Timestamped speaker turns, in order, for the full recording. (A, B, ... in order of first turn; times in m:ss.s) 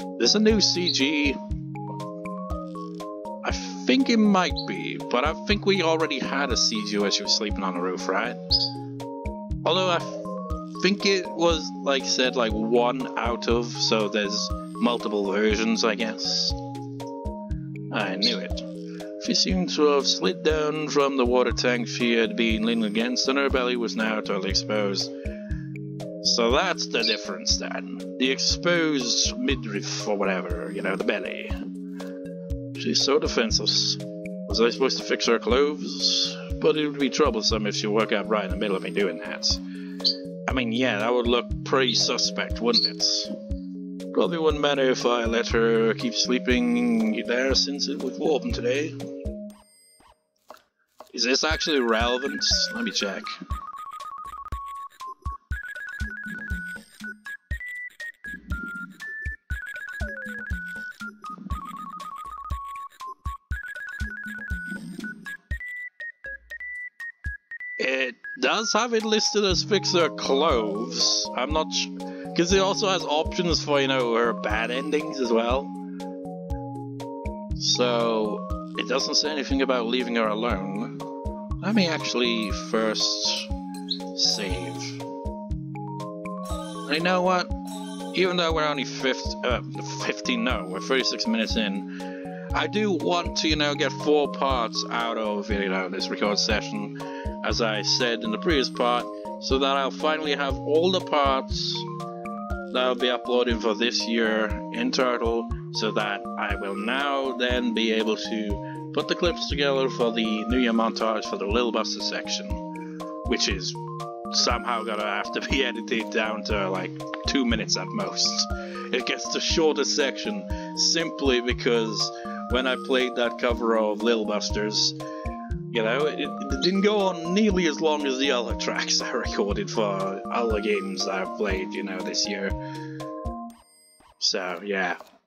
0:00.2-0:01.4 A
0:03.4-0:08.4 A
0:09.6-0:10.2 A
0:10.8-0:16.6 A
0:17.9-0:18.6 A
0:19.2-0:25.1 A
0:26.2-0:31.5 A
0:32.8-0:39.6 A
0:40.5-0:43.3 A
0:44.1-0:49.0 A
0:51.1-0:53.3 A
1:07.8-1:15.7 A
1:17.6-1:21.0 A
1:21.6-1:23.5 A
1:24.1-1:25.0 A
1:26.8-1:27.5 A
1:28.1-1:31.9 A
1:32.5-1:41.9 A
1:42.7-1:52.6 A
1:53.2-1:53.8 A
1:54.3-2:05.0 A
2:05.7-2:12.6 A
2:14.2-2:15.0 A